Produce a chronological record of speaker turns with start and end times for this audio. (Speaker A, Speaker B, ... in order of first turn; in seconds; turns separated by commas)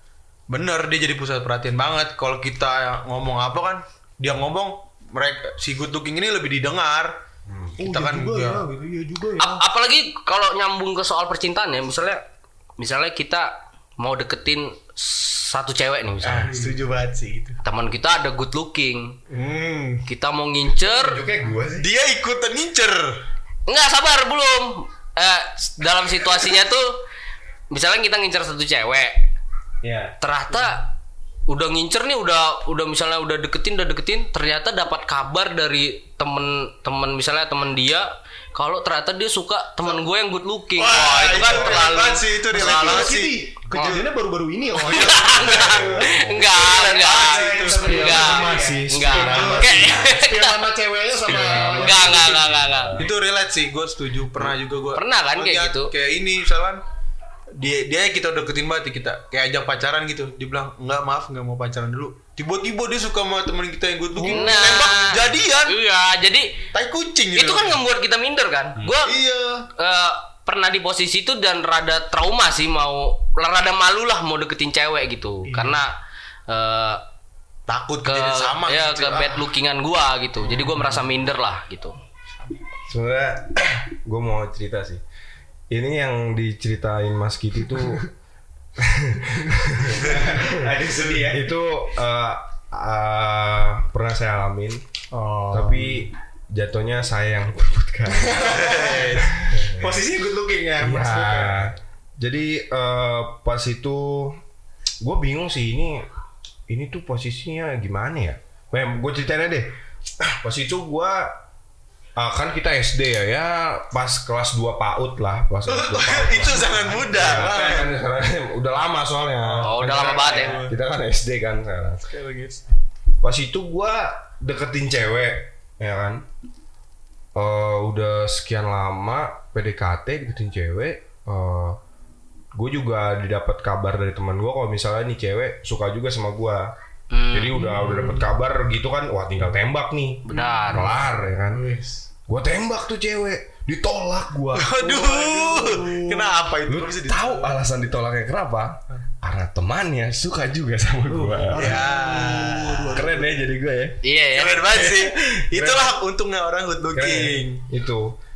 Speaker A: 0.5-7.2, Speaker B: 7.8-9.6, Speaker A: 7.8-8.6, Speaker C: 9.4-12.2, Speaker C: 12.8-16.5, Speaker A: 16.2-17.6, Speaker C: 17.6-19.2, Speaker A: 19.3-20.1, Speaker C: 20.1-21.2, Speaker D: 20.9-21.9, Speaker A: 21.8-23.2, Speaker C: 23.7-27.0, Speaker C: 27.7-29.3, Speaker E: 29.8-30.1, Speaker C: 30.2-30.9, Speaker C: 31.5-43.1, Speaker A: 40.8-44.1, Speaker D: 41.3-41.9, Speaker B: 42.5-46.2, Speaker C: 43.7-44.0, Speaker C: 44.8-50.6, Speaker A: 44.9-50.0, Speaker D: 45.5-46.5, Speaker B: 47.0-52.4, Speaker E: 47.2-48.8, Speaker D: 47.6-50.0, Speaker A: 51.3-52.4, Speaker C: 51.3-53.0, Speaker D: 51.3-53.1, Speaker A: 52.9-56.8, Speaker C: 54.9-55.9, Speaker A: 57.6-65.8, Speaker B: 64.2-64.9, Speaker C: 64.3-66.6, Speaker A: 66.7-67.8, Speaker C: 67.4-69.2, Speaker A: 69.0-69.6, Speaker C: 69.8-75.9, Speaker C: 76.5-77.0, Speaker A: 77.7-79.5, Speaker C: 78.0-81.9, Speaker D: 82.9-85.0, Speaker D: 85.7-88.1, Speaker D: 88.8-94.8, Speaker E: 90.1-91.5, Speaker B: 95.1-96.0, Speaker D: 95.5-100.0, Speaker B: 98.2-101.6, Speaker A: 98.4-99.1, Speaker D: 100.8-104.4, Speaker D: 105.0-106.0, Speaker D: 106.7-109.7, Speaker D: 110.3-111.4, Speaker D: 112.2-122.0, Speaker A: 115.7-118.0, Speaker A: 119.4-120.7, Speaker C: 119.6-120.6, Speaker A: 122.1-122.6, Speaker D: 123.2-126.2, Speaker D: 127.3-131.8, Speaker D: 132.5-136.7, Speaker C: 137.1-137.7, Speaker D: 137.3-141.7, Speaker A: 137.8-138.2, Speaker C: 140.2-141.0, Speaker A: 141.5-142.0, Speaker D: 142.3-144.7, Speaker A: 144.5-147.6, Speaker B: 144.8-146.3, Speaker D: 146.7-151.8, Speaker E: 151.2-151.4, Speaker A: 151.5-153.1, Speaker B: 151.5-153.3, Speaker D: 152.9-154.0, Speaker C: 154.0-154.7, Speaker A: 154.3-157.6, Speaker D: 154.7-156.0, Speaker D: 156.9-158.1